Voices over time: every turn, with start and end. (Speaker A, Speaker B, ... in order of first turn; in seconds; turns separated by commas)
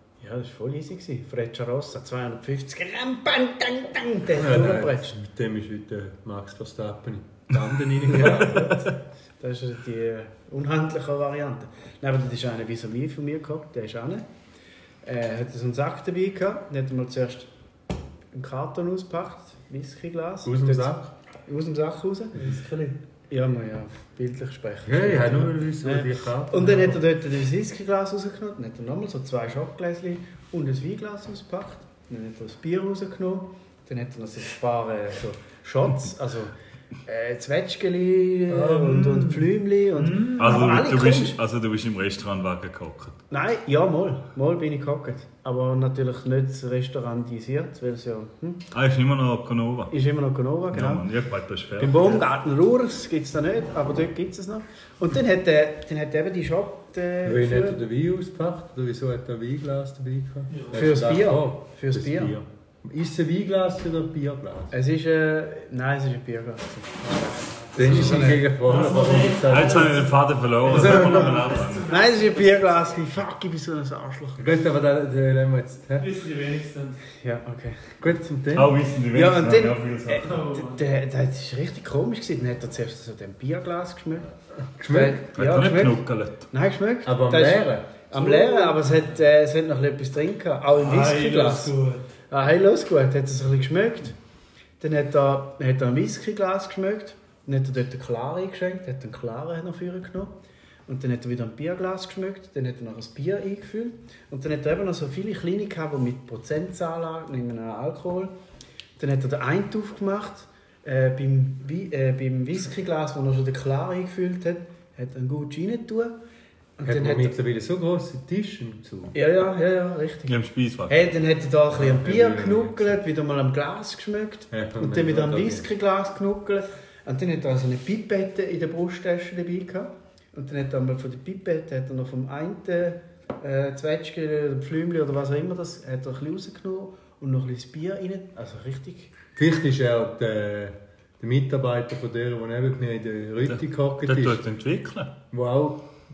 Speaker A: 0.2-5.2, Speaker B: 4.3-8.9, Speaker A: 8.0-14.3, Speaker A: 15.0-17.5, Speaker A: 18.3-22.3, Speaker B: 20.4-21.1, Speaker C: 22.3-23.0, Speaker A: 23.3-36.5, Speaker B: 24.8-27.0, Speaker A: 37.0-41.4, Speaker C: 38.5-40.5, Speaker D: 40.4-43.2, Speaker A: 43.3-48.6, Speaker D: 48.7-49.9, Speaker A: 49.9-51.0, Speaker D: 50.7-52.2, Speaker A: 51.8-57.8, Speaker B: 57.2-64.7, Speaker C: 60.5-60.8, Speaker A: 60.7-62.4, Speaker A: 64.7-68.5, Speaker C: 67.7-70.1, Speaker B: 67.7-70.0, Speaker D: 69.5-71.9, Speaker C: 70.7-72.2, Speaker B: 70.7-71.3, Speaker A: 70.8-71.2, Speaker A: 71.8-74.5, Speaker B: 74.4-76.1, Speaker C: 76.0-77.0, Speaker A: 77.2-78.2, Speaker B: 78.0-78.8, Speaker D: 78.5-80.3, Speaker A: 79.1-84.3, Speaker C: 80.2-80.9, Speaker B: 84.7-85.2, Speaker A: 84.9-91.7, Speaker D: 85.3-86.5, Speaker B: 87.0-88.7, Speaker C: 90.7-92.0, Speaker A: 92.3-94.2, Speaker A: 94.8-100.3, Speaker A: 100.8-108.3, Speaker A: 109.0-116.1, Speaker A: 116.8-117.3, Speaker B: 116.8-119.1, Speaker A: 119.1-120.3, Speaker D: 120.2-121.0, Speaker A: 120.9-139.1, Speaker B: 121.7-122.9, Speaker B: 124.5-125.7, Speaker B: 139.3-144.4, Speaker D: 143.5-145.1, Speaker B: 145.3-145.9